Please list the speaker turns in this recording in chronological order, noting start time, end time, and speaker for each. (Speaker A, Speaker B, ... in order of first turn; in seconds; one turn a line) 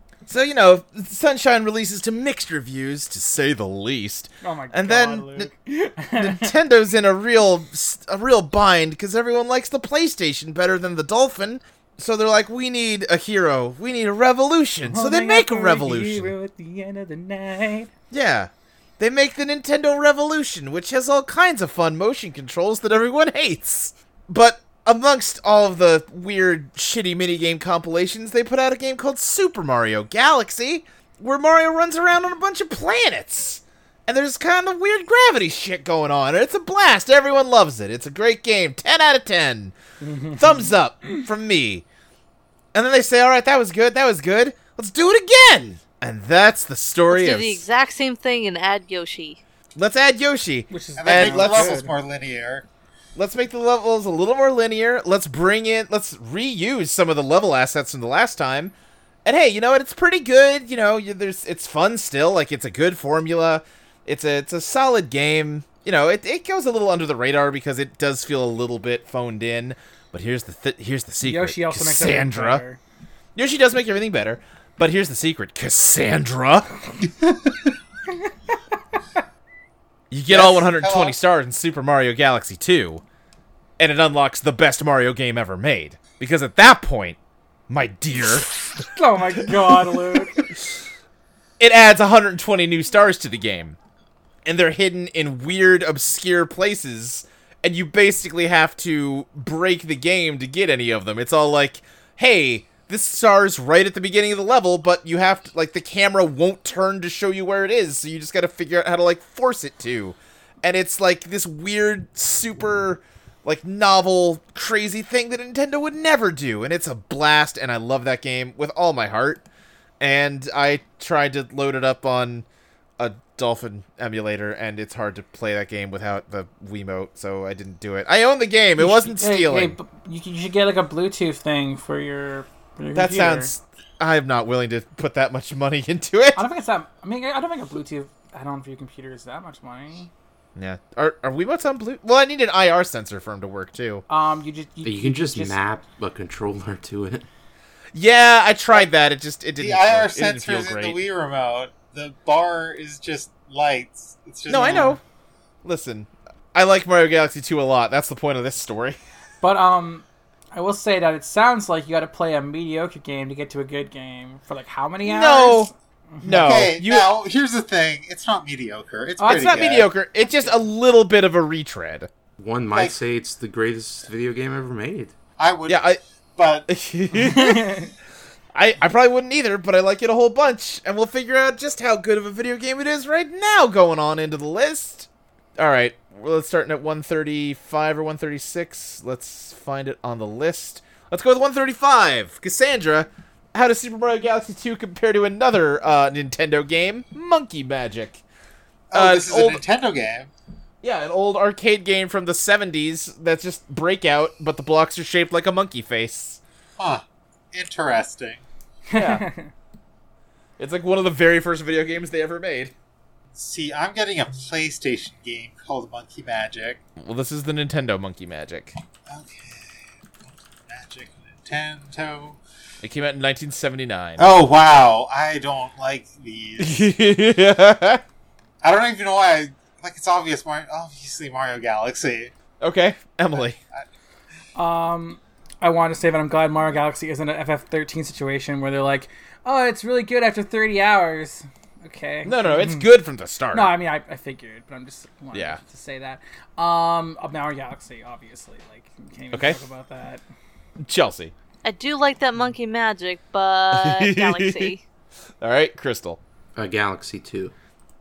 Speaker A: 0.2-5.5
Speaker B: 4.4-6.5
Speaker A: 6.2-16.3
Speaker B: 14.8-17.9
Speaker A: 18.1-39.7
Speaker B: 40.0-41.2
Speaker A: 40.3-41.8
Speaker A: 42.7-47.6
Speaker C: 47.1-49.4
Speaker A: 49.8-51.8
Speaker B: 50.7-51.9
Speaker D: 51.0-52.6
Speaker A: 53.1-58.7
Speaker A: 59.2-72.6
Speaker B: 71.2-72.8
Speaker A: 73.3-76.7
Speaker D: 77.3-77.5
Speaker A: 80.1-83.0
Speaker D: 80.3-81.2
Speaker A: 83.8-87.2
Speaker A: 87.7-88.5
Speaker B: 88.3-90.5
Speaker A: 89.4-89.7
Speaker A: 91.6-93.8
Speaker A: 94.4-119.4
Speaker A: 120.0-122.5
Speaker A: 123.0-129.8
Speaker B: 128.8-133.5
Speaker A: 132.9-136.4
Speaker B: 136.3-140.1
Speaker A: 140.6-144.0
Speaker B: 144.1-145.6
Speaker E: 144.8-147.3
Speaker A: 147.9-151.0
Speaker D: 149.6-155.0
Speaker A: 154.5-155.0
Speaker B: 154.6-154.9
Speaker A: 155.6-159.0
Speaker B: 159.4-166.4
Speaker A: 165.0-165.7
Speaker A: 166.2-167.1
Speaker D: 166.3-169.9
Speaker B: 169.2-169.7
Speaker A: 169.2-172.1
Speaker E: 172.4-175.1
Speaker D: 172.7-172.9
Speaker D: 175.4-176.7
Speaker A: 175.7-176.0
Speaker A: 176.7-177.9
Speaker B: 177.1-177.9
Speaker A: 178.5-198.2
Speaker D: 198.9-200.3
Speaker A: 198.9-199.6
Speaker A: 200.8-206.4
Speaker D: 206.8-208.4
Speaker B: 208.9-209.5
Speaker A: 208.9-209.2
Speaker A: 210.6-212.7
Speaker D: 213.3-216.8
Speaker A: 217.0-218.7
Speaker D: 219.1-222.4
Speaker A: 222.8-224.3
Speaker D: 224.2-226.9
Speaker A: 226.6-228.0
Speaker D: 228.6-232.3
Speaker A: 232.6-233.6
Speaker D: 233.3-233.8
Speaker B: 234.6-242.9
Speaker A: 242.2-243.7
Speaker B: 243.5-250.2
Speaker A: 245.3-245.6
Speaker A: 249.3-249.6
Speaker A: 250.8-251.3
Speaker C: 251.6-254.8
Speaker A: 253.7-254.7
Speaker A: 255.4-256.2
Speaker E: 256.6-257.5